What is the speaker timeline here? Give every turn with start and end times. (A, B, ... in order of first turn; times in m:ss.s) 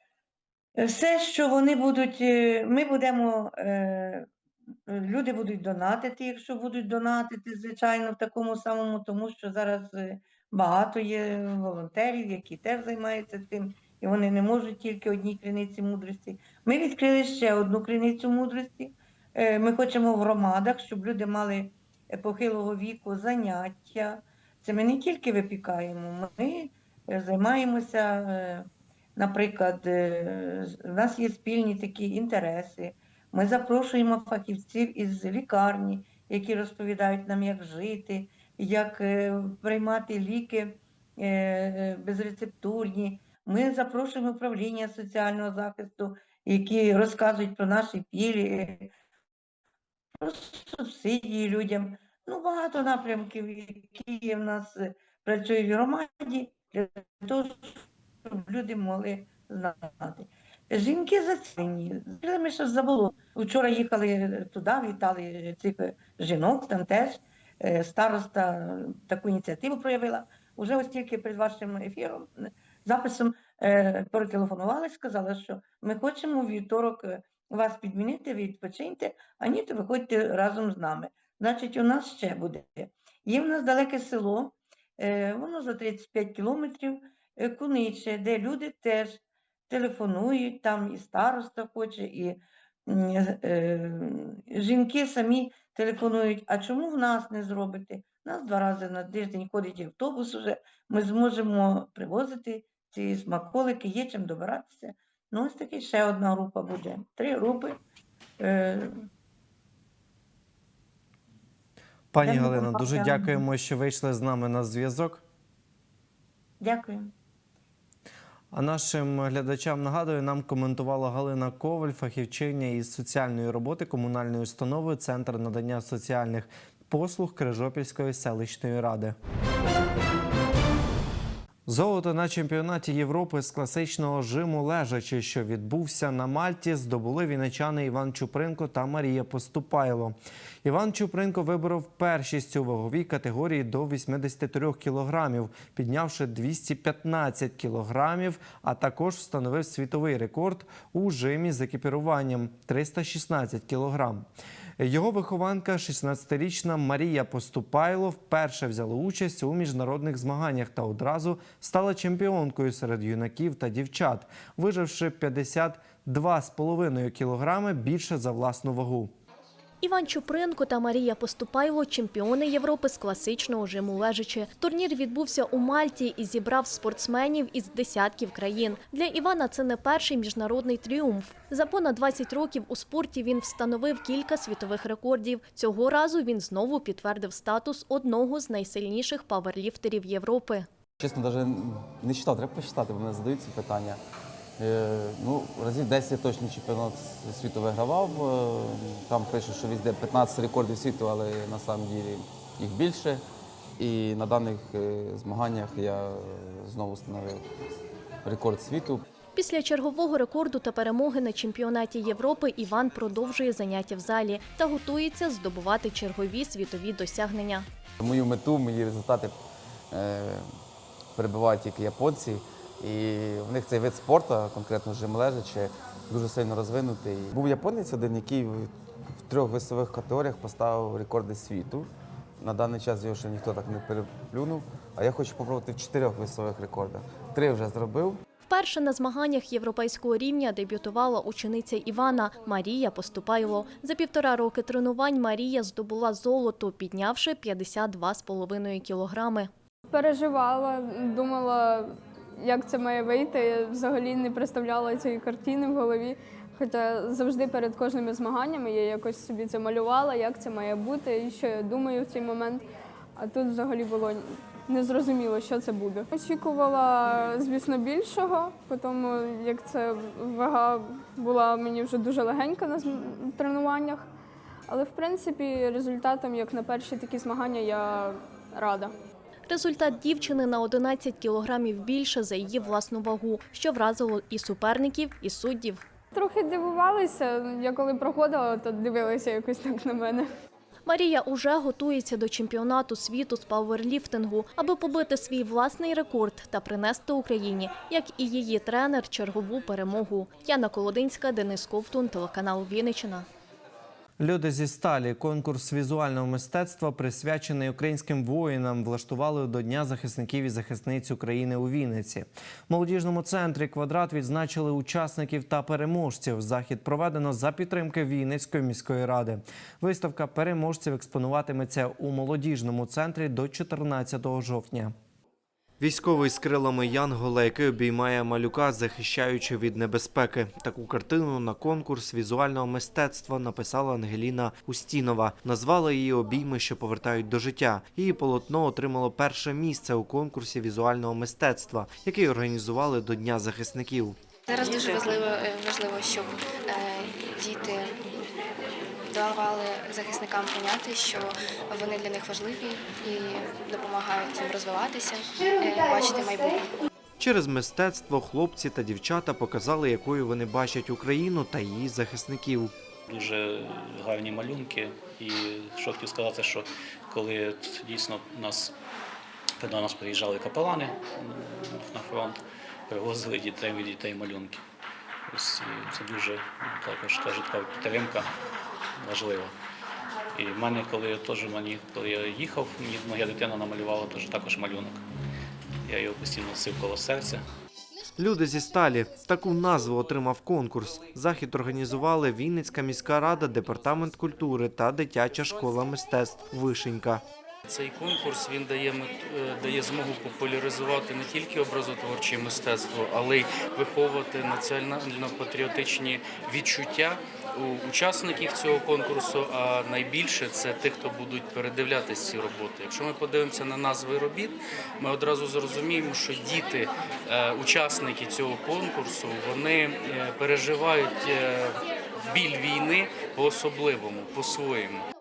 0:00.8-0:04.3 A
0:04.9-0:48.9 A
0:50.2-1:47.8 A
1:48.4-1:48.9 A
1:52.1-1:55.2 B
1:52.2-1:53.4 A
1:56.6-1:57.1 A
1:58.5-2:09.2 B
2:11.7-2:34.3 B
2:34.8-2:49.1 B
2:49.8-3:10.7 C
3:11.0-3:14.0 D
3:14.6-3:23.2 D
3:23.8-3:27.4 D
3:28.2-3:29.0 D
3:29.4-3:37.7 C
3:38.0-3:39.4 D
3:39.9-3:40.5 D
3:41.2-3:48.7 D
3:49.2-3:51.9 D
3:52.4-3:58.2 D
3:58.5-4:09.5 C
4:09.9-4:22.6 E
4:23.2-4:34.1 E
4:34.7-4:38.9 E
4:39.5-4:45.8 C
4:46.1-4:50.3 E
4:50.9-5:03.3 C
5:04.2-5:24.9 B
5:25.8-5:44.2 B
5:44.5-5:48.3 F
5:49.0-5:56.8 F
5:57.2-6:02.7 B
6:03.1-6:08.7 G
6:09.6-6:14.6 G
6:15.3-6:18.3 G
6:19.0-6:19.5 G
6:20.4-6:25.0 G
6:25.9-6:27.4 G
6:28.2-6:37.2 B
6:37.7-7:05.1 H